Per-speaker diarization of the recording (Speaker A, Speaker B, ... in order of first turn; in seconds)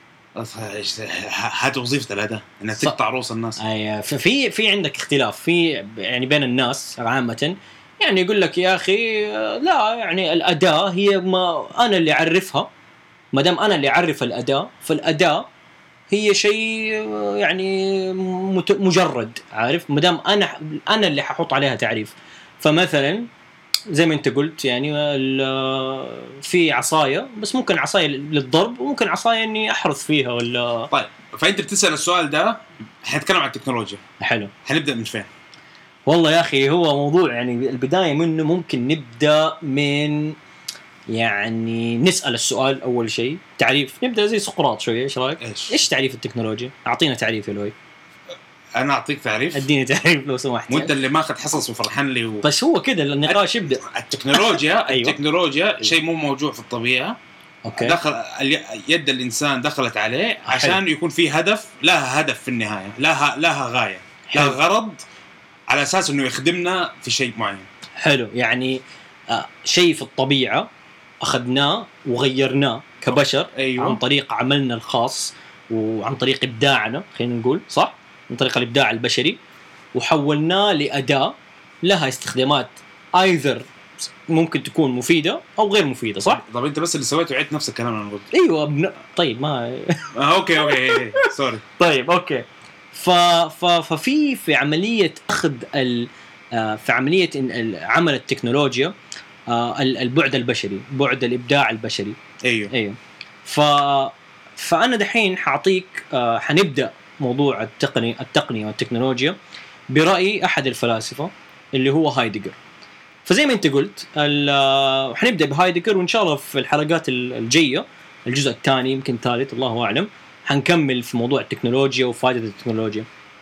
Speaker A: 0.3-3.6, 30.9-34.0, 34.6-35.3, 45.4-45.8, 48.8-49.7, 50.7-52.5, 53.3-57.2, 57.7-65.0, 65.7-67.7, 73.1-74.0, 86.2-88.3, 90.1-91.6, 102.4-102.7
Speaker B: 3.6-12.7, 13.3-15.5, 16.1-23.3, 23.9-30.9, 34.2-34.5, 36.1-40.4, 41.1-47.7, 49.5-50.9, 52.4-53.8, 54.3-55.2, 57.6-58.0, 60.5-60.8, 64.3-64.6, 68.0-70.7, 71.2-79.4, 79.9-83.6, 84.3-86.4, 88.3-90.1, 90.6-98.9, 99.5-102.2, 102.7-109.3, 109.9-112.5, 113.2-123.0